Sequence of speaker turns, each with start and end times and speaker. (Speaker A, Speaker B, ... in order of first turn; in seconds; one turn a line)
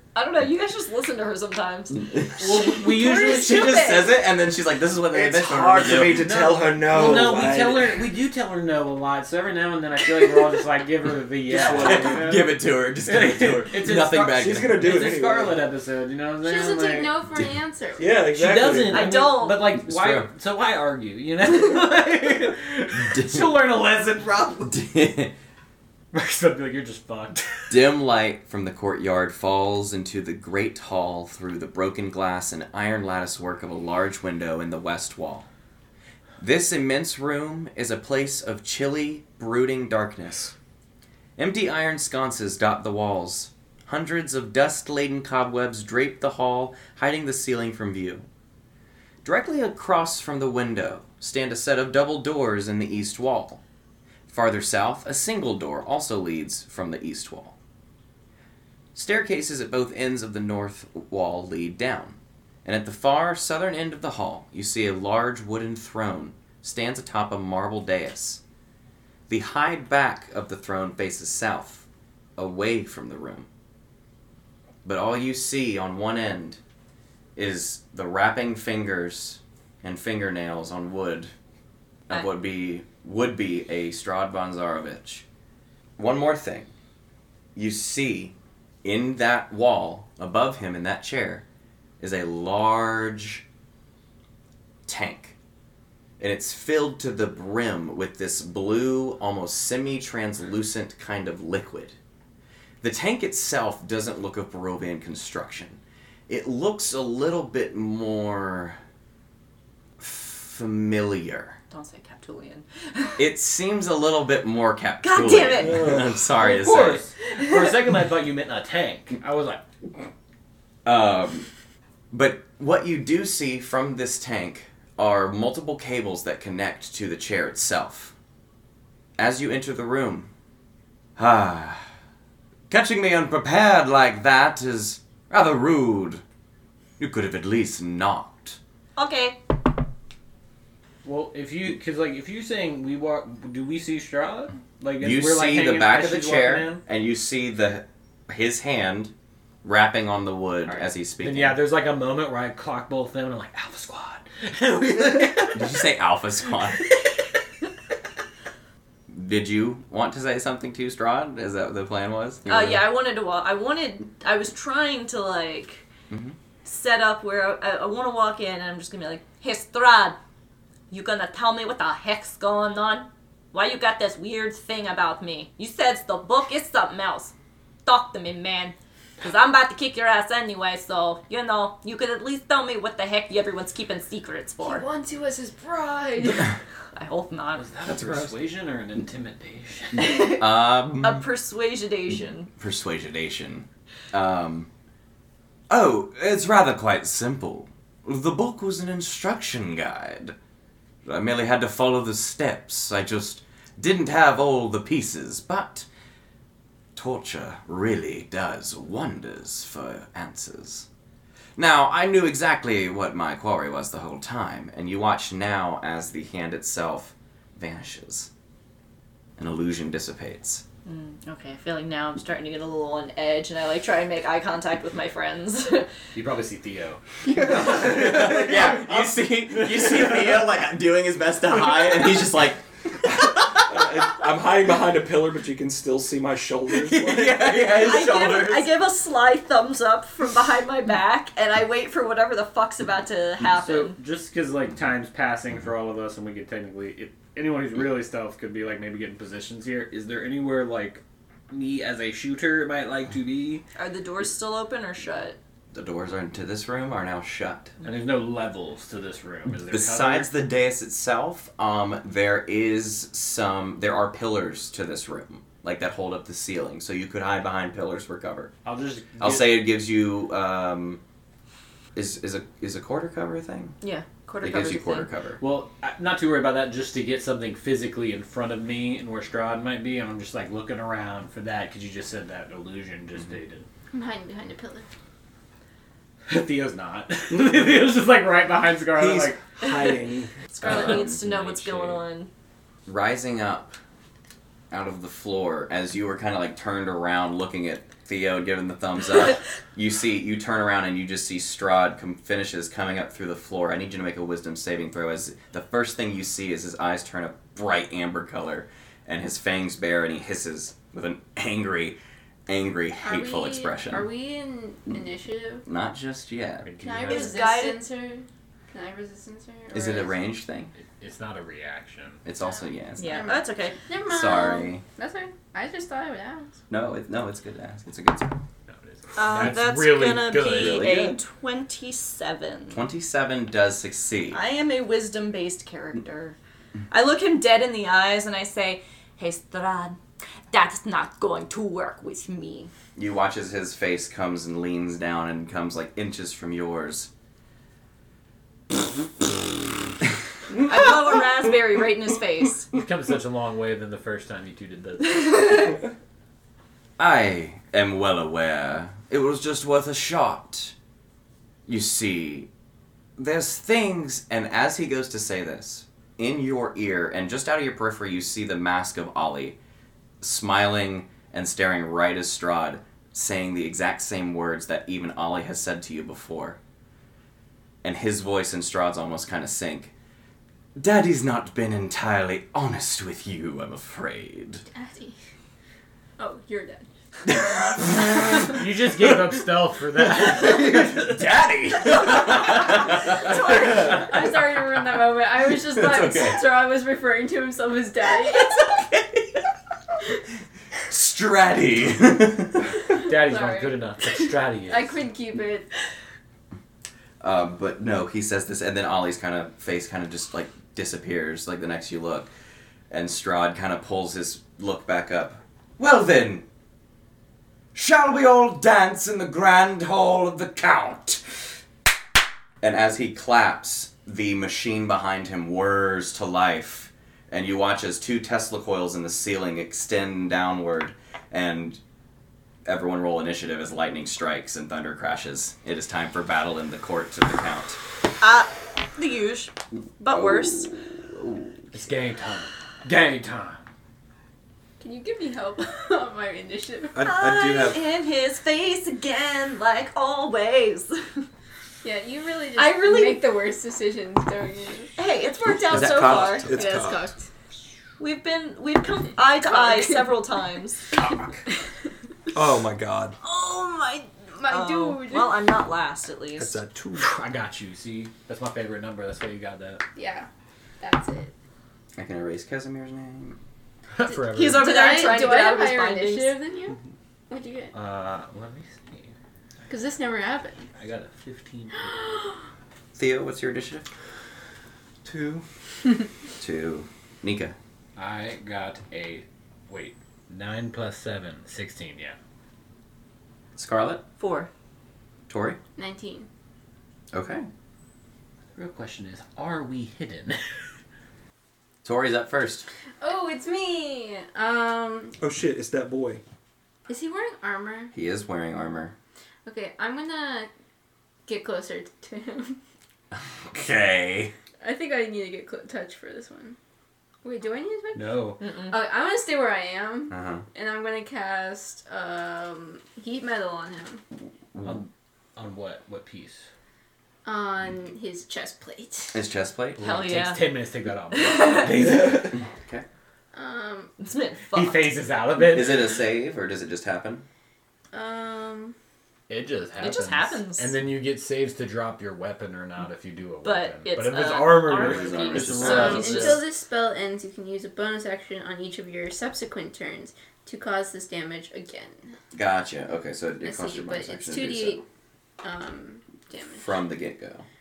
Speaker A: 0.1-4.0
Speaker B: 1.9-6.3
Speaker C: 2.4-4.0
Speaker D: 5.1-8.1
Speaker C: 6.1-17.3
Speaker D: 11.5-12.3
Speaker B: 11.5-14.8
Speaker D: 14.3-15.6
Speaker E: 16.4-18.1
Speaker D: 18.0-19.1
Speaker C: 18.3-24.7
Speaker A: 18.9-19.7
Speaker B: 19.8-20.3
Speaker B: 22.9-23.5
Speaker B: 24.6-25.3
Speaker C: 26.1-27.9
Speaker B: 27.7-35.5
Speaker B: 36.4-40.5
Speaker B: 41.4-48.3
Speaker B: 49.2-53.6
Speaker B: 54.3-57.6
Speaker B: 59.0-68.4
Speaker B: 69.3-73.5
Speaker B: 74.8-76.6
Speaker B: 77.4-81.3
Speaker B: 82.1-85.3
Speaker B: 86.0-86.7
Speaker B: 87.6-91.5
Speaker B: 92.0-93.4
Speaker B: 94.9-95.4
Speaker B: 96.2-102.0
Speaker B: 102.8-108.8
Speaker B: 110.0-111.6
Speaker A: 111.7-113.2
Speaker B: 113.2-117.1
Speaker A: 115.0-115.9
Speaker D: 115.6-116.1
Speaker C: 115.7-119.6
Speaker B: 120.8-121.5
Speaker B: 122.1-128.1
Speaker B: 129.2-130.3
Speaker B: 131.2-131.9
Speaker B: 132.7-136.2
Speaker B: 137.0-138.6
Speaker A: 139.0-139.4
Speaker C: 141.0-146.8
Speaker B: 145.0-149.1
Speaker B: 149.6-151.6
Speaker C: 151.2-155.8
Speaker B: 155.5-156.9
Speaker B: 159.1-162.8
Speaker A: 162.5-165.9
Speaker B: 166.1-166.4
Speaker A: 166.7-170.2
Speaker A: 170.9-177.3
Speaker A: 177.8-184.8
Speaker E: 184.6-186.5
Speaker A: 186.9-187.7
Speaker C: 187.6-190.4
Speaker B: 187.8-188.4
Speaker A: 190.0-190.4
Speaker B: 190.2-191.2
Speaker A: 191.0-192.5
Speaker B: 192.6-194.7
Speaker B: 195.7-200.3
Speaker B: 201.1-205.9
Speaker B: 207.0-210.9
Speaker B: 211.6-218.3
Speaker B: 219.4-220.6
Speaker A: 220.8-225.9
Speaker C: 226.1-230.2
Speaker B: 227.5-233.6
Speaker D: 227.5-228.3
Speaker D: 233.1-237.5
Speaker C: 236.9-238.5
Speaker B: 236.9-238.6
Speaker A: 237.6-244.0
Speaker C: 243.5-253.6
Speaker A: 253.8-255.4
Speaker B: 255.7-257.8
Speaker C: 257.8-260.3
Speaker B: 259.7-268.5
Speaker C: 268.6-269.6
Speaker B: 269.2-271.0
Speaker B: 271.9-273.8
Speaker A: 273.8-275.1
Speaker B: 274.4-275.4
Speaker C: 275.4-283.7
Speaker E: 283.9-284.9
Speaker C: 286.3-289.4
Speaker D: 288.9-290.3
Speaker A: 290.5-292.3
Speaker B: 290.6-291.4
Speaker C: 290.6-292.0
Speaker B: 292.9-293.7
Speaker B: 294.7-314.1
Speaker E: 313.0-315.6
Speaker B: 315.7-316.7
Speaker C: 316.6-317.4
Speaker E: 316.8-320.2
Speaker A: 317.1-317.8
Speaker B: 319.7-320.7
Speaker C: 320.8-322.2
Speaker B: 322.2-323.3
Speaker E: 322.4-326.6
Speaker A: 323.0-323.8
Speaker B: 324.1-324.8
Speaker B: 326.7-328.4
Speaker C: 328.7-330.9
Speaker A: 329.2-332.9
Speaker B: 330.5-331.2
Speaker B: 332.7-334.4
Speaker A: 334.3-336.4
Speaker A: 336.9-340.0
Speaker A: 340.5-342.7
Speaker B: 343.0-347.1
Speaker A: 350.6-352.7
Speaker C: 352.7-355.7
Speaker B: 357.0-360.8
Speaker B: 361.7-362.5
Speaker B: 363.2-369.6
Speaker B: 370.2-376.6
Speaker B: 377.8-379.9
Speaker B: 380.8-384.6
Speaker E: 384.7-385.2
Speaker E: 386.2-386.9
Speaker B: 387.3-389.3
Speaker C: 388.5-394.0
Speaker B: 390.2-394.0
Speaker E: 392.5-398.9
Speaker B: 395.7-396.6
Speaker B: 400.9-402.7
Speaker C: 402.9-405.0
Speaker E: 402.9-403.8
Speaker E: 404.7-405.7
Speaker B: 407.2-412.3
Speaker B: 412.9-416.4
Speaker B: 417.8-421.6
Speaker B: 422.6-431.8
Speaker B: 432.6-437.8
Speaker A: 438.2-440.7
Speaker B: 440.1-441.6
Speaker C: 441.7-443.6
Speaker E: 444.8-447.0
Speaker D: 446.9-447.8
Speaker A: 447.0-451.2
Speaker E: 451.8-454.9
Speaker A: 452.6-453.3
Speaker A: 455.0-456.5
Speaker E: 455.5-457.3
Speaker B: 455.7-456.5
Speaker D: 455.7-457.1
Speaker A: 458.0-460.9
Speaker E: 459.4-460.1
Speaker E: 460.9-461.3
Speaker D: 462.3-463.2
Speaker E: 463.3-465.3
Speaker A: 464.0-466.6
Speaker D: 466.4-467.1
Speaker C: 466.9-469.8
Speaker E: 469.9-470.3
Speaker E: 470.8-471.3
Speaker B: 472.0-473.4
Speaker C: 473.9-474.8
Speaker E: 474.0-477.7
Speaker A: 474.3-476.4
Speaker C: 477.7-479.1
Speaker E: 479.7-480.7
Speaker C: 480.8-482.0
Speaker E: 481.8-482.4
Speaker B: 483.0-483.9
Speaker D: 485.0-485.4
Speaker B: 486.4-487.6
Speaker C: 488.0-492.2
Speaker B: 493.6-494.0
Speaker A: 494.2-494.5
Speaker B: 495.3-495.6
Speaker E: 495.8-496.3
Speaker B: 497.1-497.5
Speaker C: 498.6-500.7
Speaker B: 501.8-502.7
Speaker E: 503.0-505.2
Speaker D: 505.2-506.2
Speaker E: 506.9-507.9
Speaker B: 507.9-508.9
Speaker E: 509.5-510.5
Speaker E: 511.3-512.6
Speaker B: 513.2-514.3
Speaker E: 514.6-516.6
Speaker E: 517.2-524.0
Speaker C: 517.9-518.4
Speaker A: 518.4-518.8
Speaker B: 520.1-520.5
Speaker B: 524.5-524.8
Speaker C: 524.6-526.4
Speaker E: 527.2-529.2
Speaker B: 529.1-529.8
Speaker C: 529.8-532.3
Speaker A: 529.8-530.5
Speaker A: 531.1-531.8
Speaker D: 531.6-532.3
Speaker B: 532.6-532.9
Speaker E: 533.3-534.0
Speaker A: 534.0-534.9
Speaker C: 534.5-535.9
Speaker B: 535.4-537.2
Speaker E: 537.9-538.8
Speaker C: 539.3-546.4
Speaker A: 539.8-540.8
Speaker A: 543.4-546.5
Speaker B: 544.7-546.4
Speaker E: 545.6-552.1
Speaker B: 552.3-554.8
Speaker E: 553.4-554.8
Speaker E: 555.4-556.8
Speaker B: 556.5-557.5